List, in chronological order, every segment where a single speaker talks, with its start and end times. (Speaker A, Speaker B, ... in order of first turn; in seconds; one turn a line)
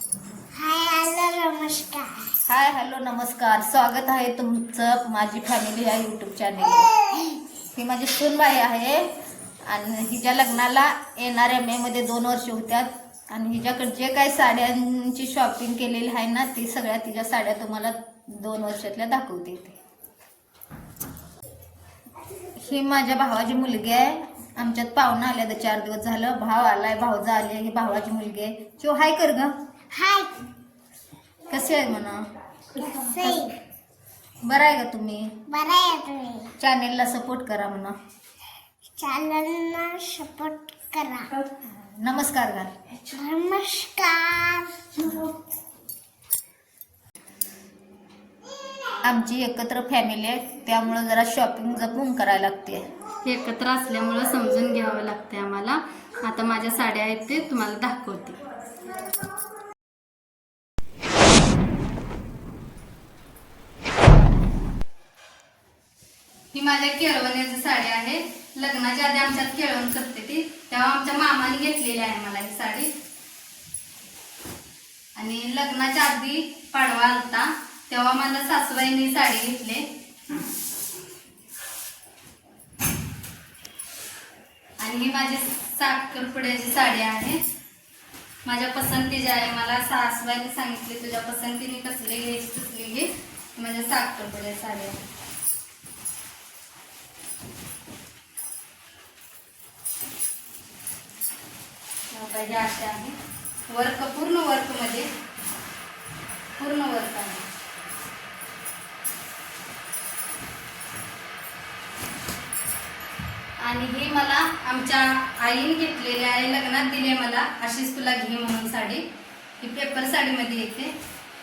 Speaker A: 0.6-2.3
Speaker B: 2.5-6.9
Speaker A: 7.0-7.4
Speaker B: 7.8-9.1
Speaker B: 9.7-19.8
Speaker B: 22.5-29.6
Speaker A: 29.9-30.4
Speaker B: 31.5-32.3
Speaker A: 32.8-33.6
Speaker B: 34.4-35.5
Speaker A: 35.5-36.5
Speaker B: 36.6-38.0
Speaker A: 39.0-41.3
Speaker B: 41.5-42.8
Speaker A: 43.0-45.3
Speaker B: 49.0-52.8
Speaker C: 53.2-58.4
Speaker C: 66.5-72.9
Speaker C: 75.2-79.8
Speaker C: 84.8-87.4
Speaker C: 88.5-95.0
Speaker C: 102.1-103.2
Speaker C: 103.7-105.1
Speaker C: 106.6-107.4
Speaker C: 113.6-119.0
Speaker C: 119.6-120.9